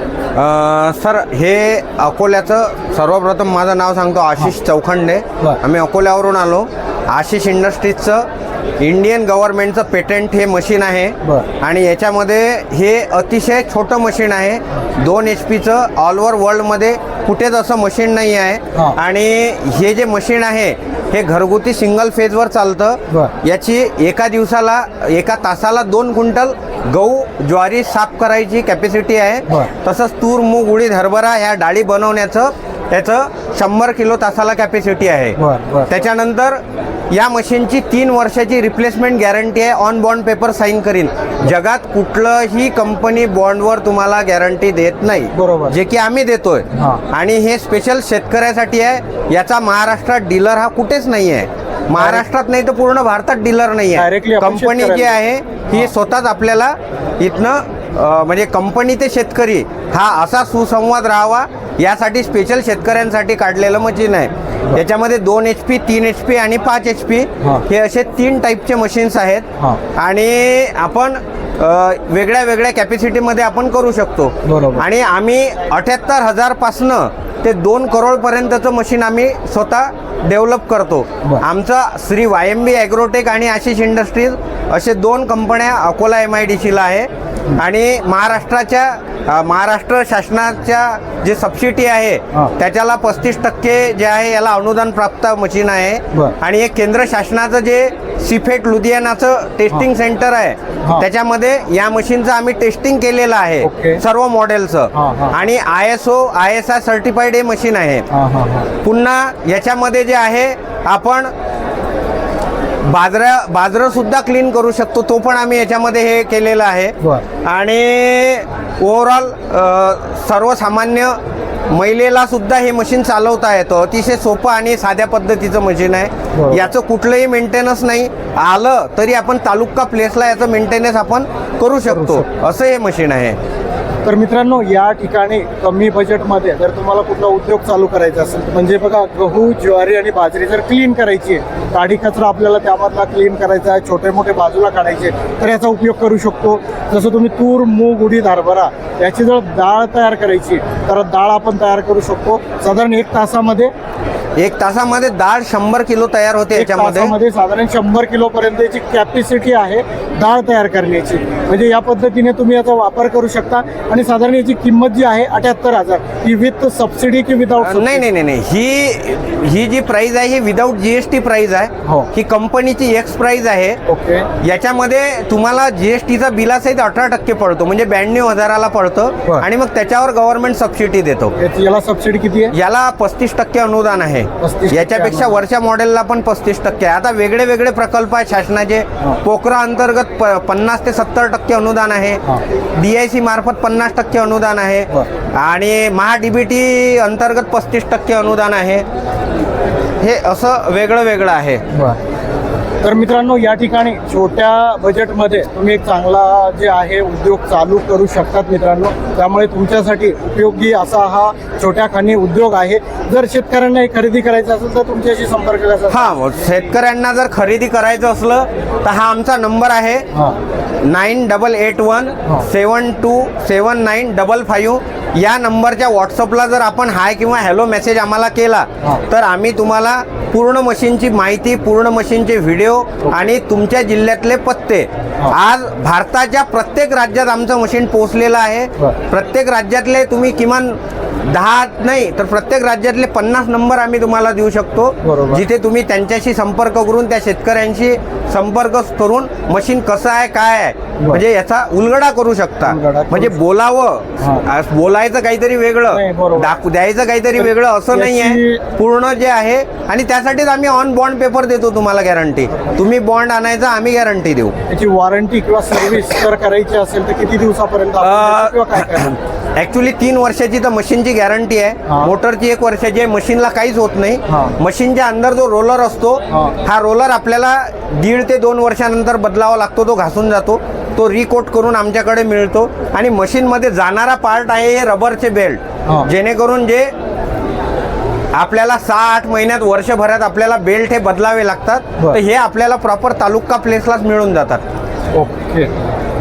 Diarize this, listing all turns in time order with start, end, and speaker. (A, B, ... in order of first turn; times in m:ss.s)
0:00.3-0:08.3 A
0:08.8-1:48.1 A
0:35.4-0:36.0 B
0:45.3-0:45.8 B
0:46.7-0:47.0 B
0:52.0-0:52.2 B
0:53.9-0:55.1 B
1:14.4-1:14.8 B
1:43.6-1:44.0 B
1:44.9-1:45.4 B
1:48.1-1:48.7 B
1:48.8-1:51.3 A
1:52.8-2:13.4 A
2:06.3-2:06.7 B
2:11.8-2:12.2 B
2:14.0-2:33.7 B
2:34.4-2:37.1 A
2:36.5-2:48.0 B
2:47.6-2:53.8 A
2:53.8-2:54.3 B
2:54.4-3:01.3 A
3:01.4-3:02.5 B
3:02.5-3:12.2 A
3:04.4-3:05.4 B
3:12.7-3:18.8 A
3:20.0-3:21.6 A
3:22.8-3:36.1 B
3:35.9-3:40.1 A
3:40.8-4:24.6 A
4:05.0-4:05.4 B
4:12.6-4:13.4 B
4:14.2-4:14.4 B
4:15.9-4:16.5 B
4:17.4-4:18.6 B
4:24.7-4:29.1 B
4:28.0-4:46.9 A
4:31.9-4:32.1 B
4:34.3-4:34.5 B
4:36.3-4:36.6 B
4:48.3-4:54.6 A
4:55.1-4:55.7 B